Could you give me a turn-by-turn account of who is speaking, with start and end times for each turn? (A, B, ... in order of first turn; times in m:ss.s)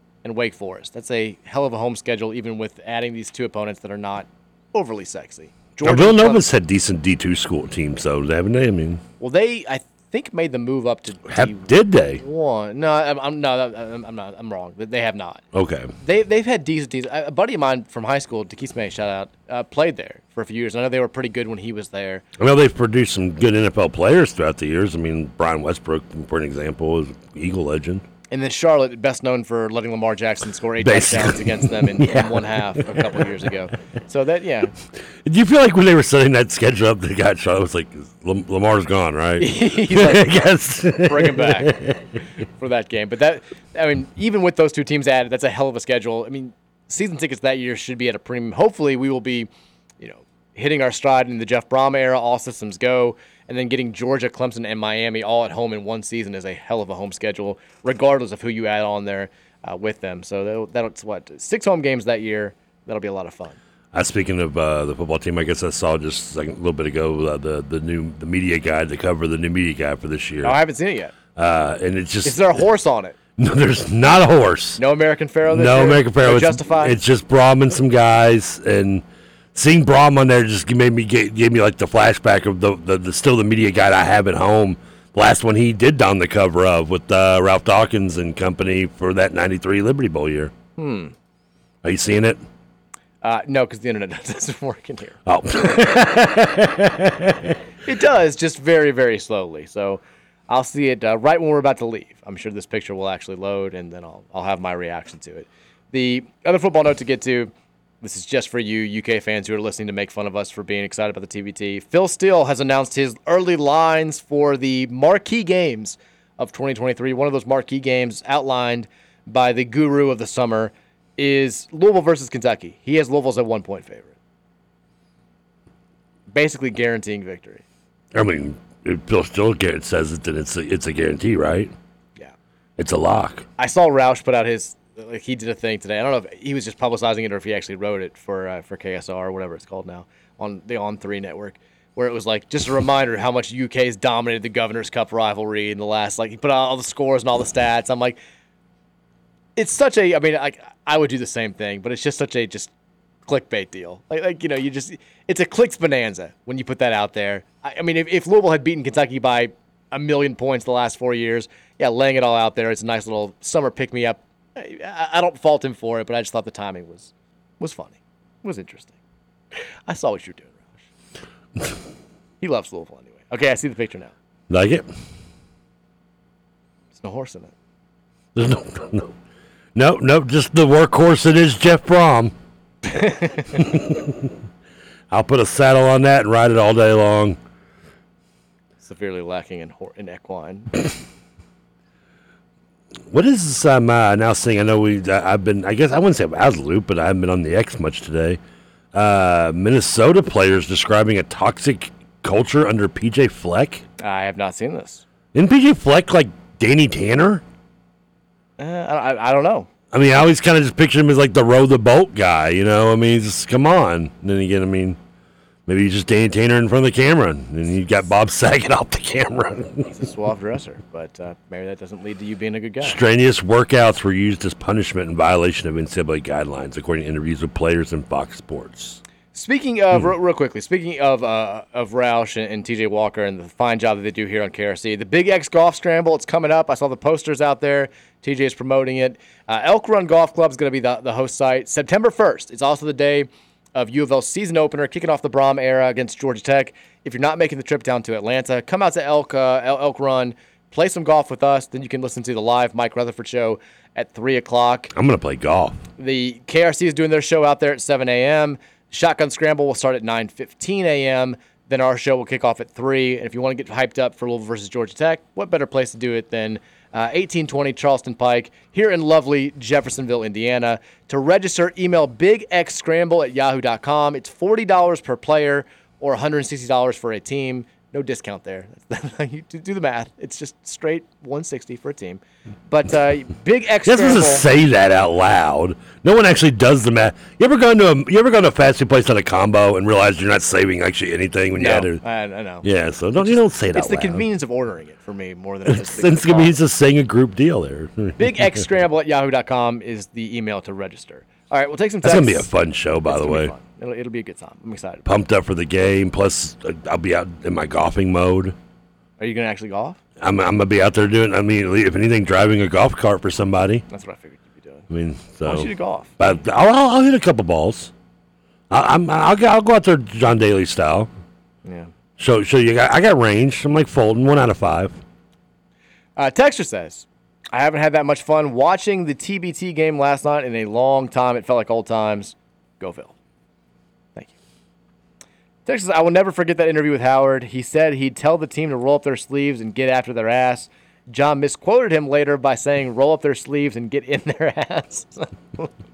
0:00.2-0:06.4 A
0:05.8-0:09.0 B
0:09.2-0:15.4 A
0:11.3-0:12.2 B
0:15.5-0:15.9 B
0:16.0-0:22.2 A
0:22.4-0:28.0 B
0:28.3-0:34.7 A
0:30.8-0:33.5 B
0:35.2-0:42.2 B
0:39.4-0:40.3 A
0:41.0-0:41.7 A
0:42.6-0:49.5 A
0:50.0-1:03.6 A
1:03.9-1:10.6 B
1:10.4-1:11.1 A
1:11.4-1:12.6 B
1:12.2-1:13.2 A
1:13.4-1:14.8 B
1:14.8-1:17.0 A
1:15.5-1:30.5 B
1:30.8-1:31.1 A
1:31.8-1:32.4 B
1:33.2-1:35.2 A
1:35.2-1:37.6 B
1:37.8-2:04.1 A
2:06.3-2:07.6 A
2:08.1-2:11.7 B
2:12.8-2:13.5 B
2:13.6-2:28.2 A
2:29.6-2:32.7 A
2:33.3-2:48.9 A
2:49.9-2:50.8 A
2:52.4-2:54.1 A
2:54.5-2:54.9 B
2:56.9-2:57.5 A
2:58.3-2:59.1 B
2:59.7-3:02.3 B
3:02.9-3:03.5 A
3:03.5-3:04.3 B
3:05.1-3:07.4 B
3:08.8-3:10.7 A
3:13.1-3:18.4 B
3:18.9-3:23.8 B
3:24.0-3:25.0 A
3:25.3-3:27.4 B
3:28.6-3:29.7 A
3:29.9-3:35.0 B
3:35.7-3:39.9 B
3:39.9-3:43.0 A
3:42.8-3:49.0 B
3:49.3-4:14.9 A
4:14.9-4:15.8 B
4:16.0-4:44.4 A
4:43.8-4:52.0 B
4:51.5-4:52.6 A
4:52.6-4:54.2 B
4:53.2-4:56.6 A
4:55.6-4:58.6 B
4:58.2-5:02.5 A
5:02.0-5:03.5 B
5:03.1-5:05.0 A
5:05.0-5:08.5 B
5:09.2-5:10.0 A
5:10.2-5:13.8 B
5:13.9-5:14.9 A
5:14.9-5:17.9 B
5:15.4-5:16.1 A
5:18.7-5:21.1 B
5:21.6-5:21.9 A
5:22.2-5:25.0 B
5:26.2-5:33.1 A
5:35.6-5:45.7 A